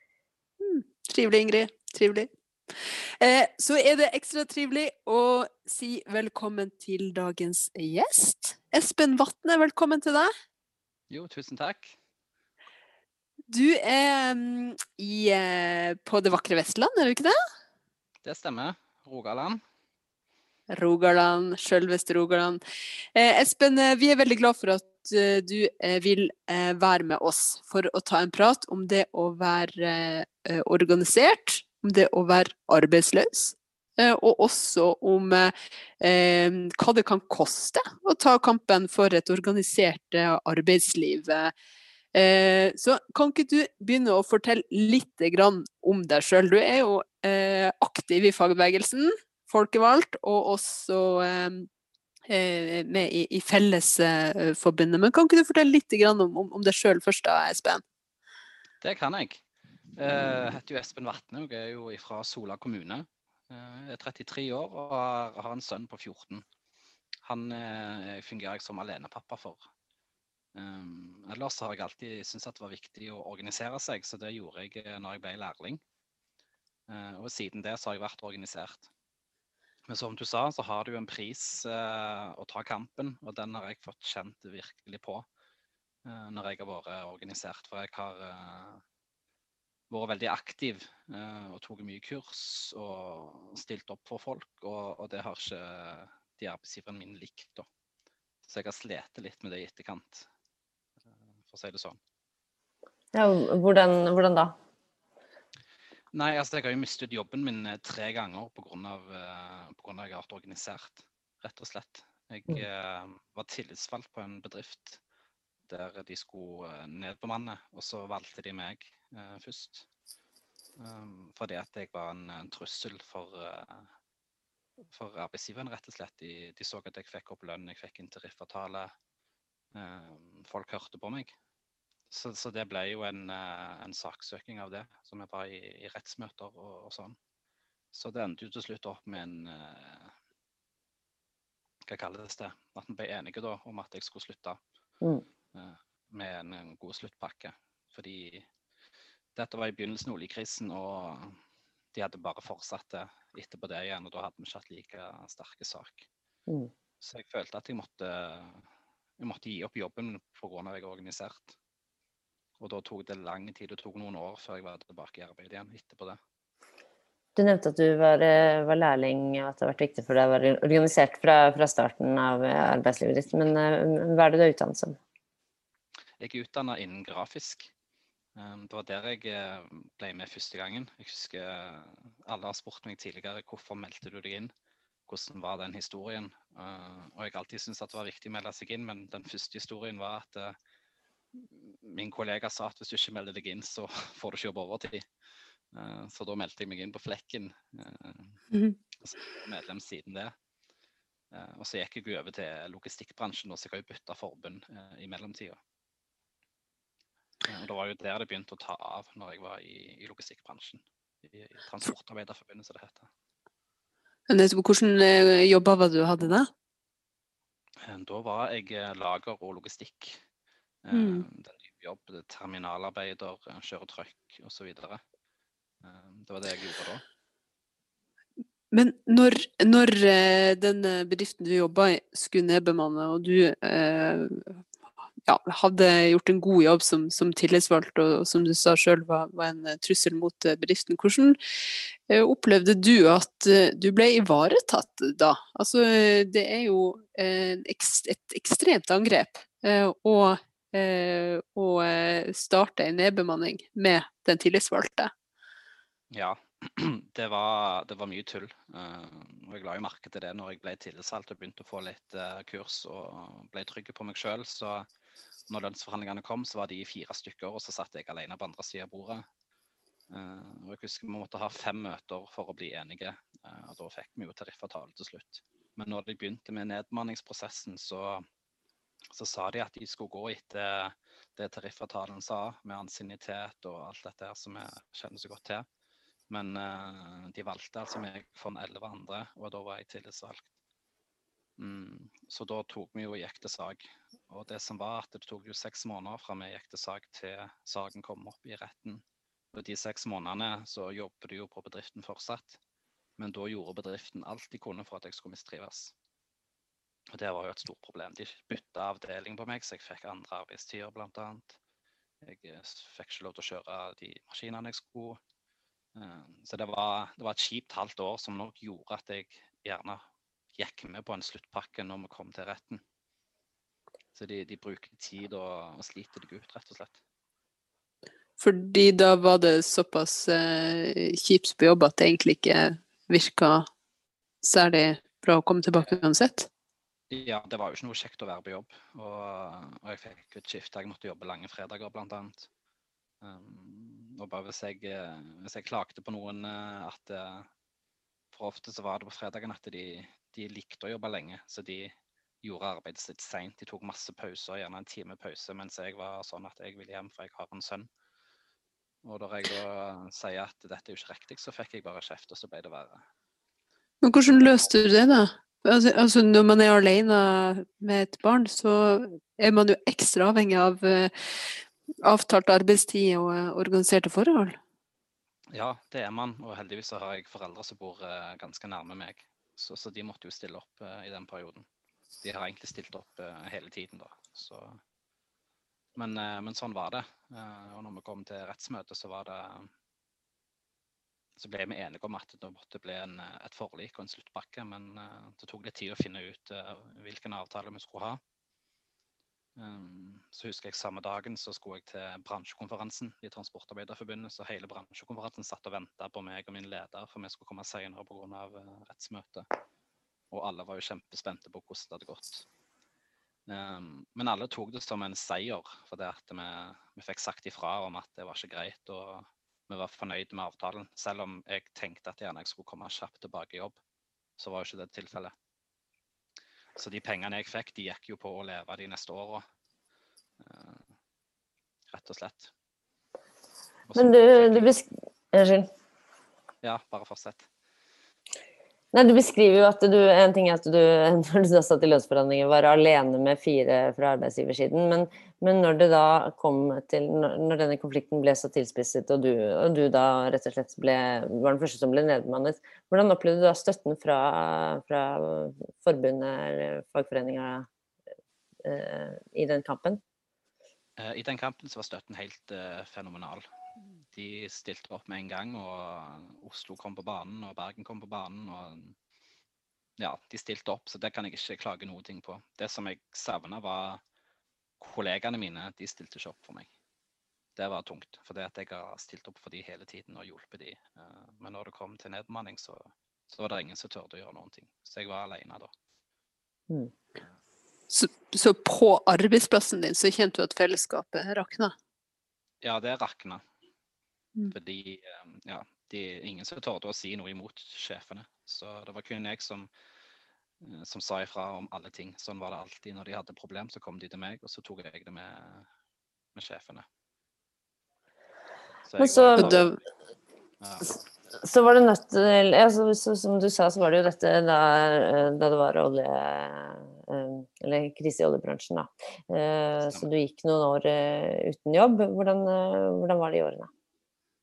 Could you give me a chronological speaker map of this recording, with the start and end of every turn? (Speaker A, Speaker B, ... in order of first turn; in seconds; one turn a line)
Speaker A: 0.6-10.3
Speaker B: 11.1-12.0
Speaker A: 13.5-17.4
Speaker B: 18.2-19.6
Speaker A: 20.7-22.6
Speaker A: 23.1-41.5
Speaker A: 42.1-51.7
Speaker A: 52.3-57.8
Speaker B: 58.8-59.4
Speaker B: 60.0-66.5
Speaker B: 67.2-69.7
Speaker B: 70.5-75.8
Speaker B: 76.9-78.9
Speaker B: 79.9-85.2
Speaker B: 86.0-88.8
Speaker B: 89.9-97.7
Speaker B: 98.5-100.3
Speaker B: 101.5-102.0
Speaker C: 103.1-104.5
Speaker B: 106.1-115.0
Speaker B: 115.7-119.9
Speaker B: 120.8-123.9
Speaker B: 124.9-128.9
Speaker B: 129.7-131.3
Speaker B: 132.1-137.2
Speaker B: 137.9-140.1
Speaker B: 141.9-144.6
Speaker B: 145.5-148.5
Speaker B: 149.3-151.4
Speaker B: 151.9-156.1
Speaker B: 157.0-158.7
Speaker B: 159.2-161.6
Speaker B: 162.6-166.2
Speaker C: 167.4-175.0
Speaker B: 176.2-177.7
Speaker B: 178.4-184.5
Speaker B: 185.1-190.6
Speaker B: 191.3-195.1
Speaker B: 195.7-198.4
Speaker B: 199.0-200.3
Speaker B: 201.3-205.6
Speaker B: 207.4-213.1
Speaker A: 214.3-216.5
Speaker B: 217.8-220.2
Speaker B: 220.8-225.0
Speaker A: 220.9-221.3
Speaker B: 225.8-227.0
Speaker A: 228.7-234.6
Speaker A: 235.2-255.1
Speaker B: 256.1-264.9
Speaker B: 265.5-269.3
Speaker B: 270.1-278.3
Speaker B: 279.1-285.7
Speaker B: 286.3-290.5
Speaker B: 291.6-302.6
Speaker B: 303.2-305.9
Speaker B: 307.1-311.6
Speaker B: 312.2-315.2
Speaker B: 316.0-320.0
Speaker B: 320.6-322.8
Speaker B: 324.1-327.0
Speaker A: 328.4-333.7
Speaker A: 334.4-336.5
Speaker B: 337.1-342.5
Speaker B: 343.2-347.5
Speaker B: 348.3-357.9
Speaker B: 359.0-363.1
Speaker A: 364.0-374.6
Speaker B: 364.3-364.6
Speaker B: 375.5-381.7
Speaker B: 382.2-384.8
Speaker B: 386.0-389.7
Speaker B: 391.4-398.2
Speaker B: 399.6-409.5
Speaker B: 410.3-412.5
Speaker B: 413.5-423.8
Speaker B: 424.4-425.3
Speaker B: 426.8-429.4
Speaker B: 430.4-430.9
Speaker B: 431.9-432.5
Speaker B: 433.9-434.7
Speaker C: 433.9-435.7
Speaker B: 436.6-437.5
Speaker C: 438.9-457.7
Speaker C: 458.6-460.0
Speaker B: 461.0-463.4
Speaker B: 464.1-469.0
Speaker B: 470.0-474.0
Speaker B: 474.8-476.7
Speaker B: 477.6-485.7
Speaker A: 487.9-491.7
Speaker B: 492.6-493.4
Speaker B: 494.5-499.7
Speaker B: 500.6-505.7
Speaker B: 506.4-506.9
Speaker B: 508.9-509.7
Speaker C: 509.0-509.6
Speaker A: 509.3-509.8
Speaker B: 510.6-511.0
Speaker C: 511.3-523.7